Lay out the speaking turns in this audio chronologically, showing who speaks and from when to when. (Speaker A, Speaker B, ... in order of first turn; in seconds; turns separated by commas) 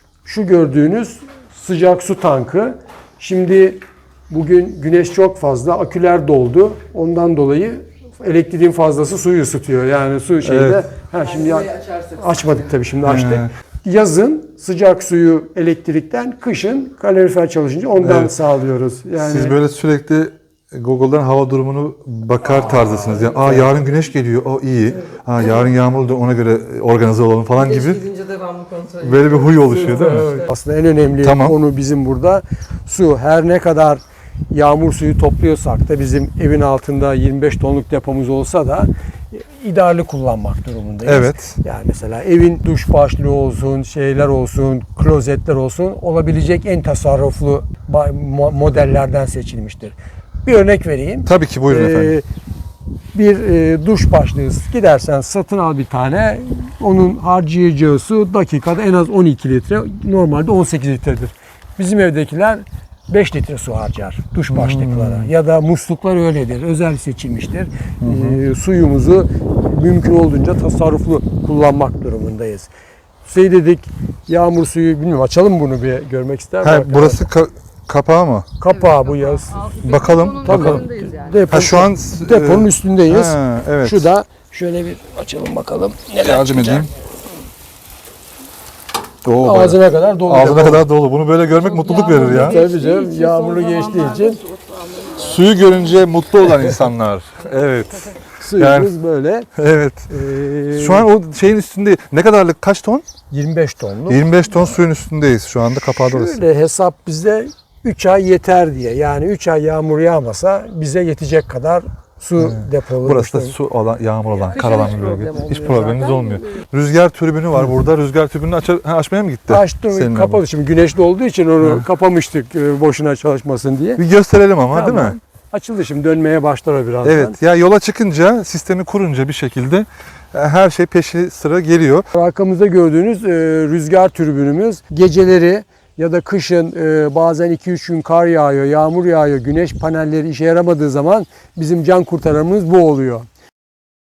Speaker A: 0.2-19.6, Speaker B: 10.4-10.8, Speaker C: 11.1-12.7, Speaker B: 13.0-13.5, Speaker B: 18.0-18.3, Speaker B: 19.2-28.0, Speaker A: 22.6-23.8, Speaker C: 25.4-25.7, Speaker C: 27.6-30.5, Speaker B: 29.0-30.3, Speaker A: 29.6-52.2, Speaker B: 31.2-31.6, Speaker B: 41.0-41.6, Speaker B: 51.2-52.2, Speaker A: 53.1-72.7, Speaker B: 64.5-65.3, Speaker B: 68.0-68.4, Speaker A: 73.2-77.3, Speaker B: 76.6-78.5, Speaker A: 78.6-79.6, Speaker C: 78.6-81.4, Speaker B: 79.8-80.8, Speaker A: 80.4-86.9, Speaker B: 81.5-84.1, Speaker B: 86.2-86.9, Speaker B: 89.2-92.6, Speaker A: 89.4-90.8, Speaker C: 91.5-95.9, Speaker A: 92.1-94.4, Speaker B: 95.1-98.9, Speaker A: 98.4-99.5, Speaker B: 99.5-100.1, Speaker A: 100.1-101.1, Speaker B: 100.7-103.0, Speaker A: 103.3-104.8, Speaker B: 104.1-106.4, Speaker A: 105.8-113.6, Speaker B: 112.4-120.4, Speaker C: 114.4-116.4, Speaker A: 119.5-124.0, Speaker B: 124.0-125.2, Speaker A: 124.7-127.4, Speaker B: 127.0-132.1, Speaker A: 132.1-143.3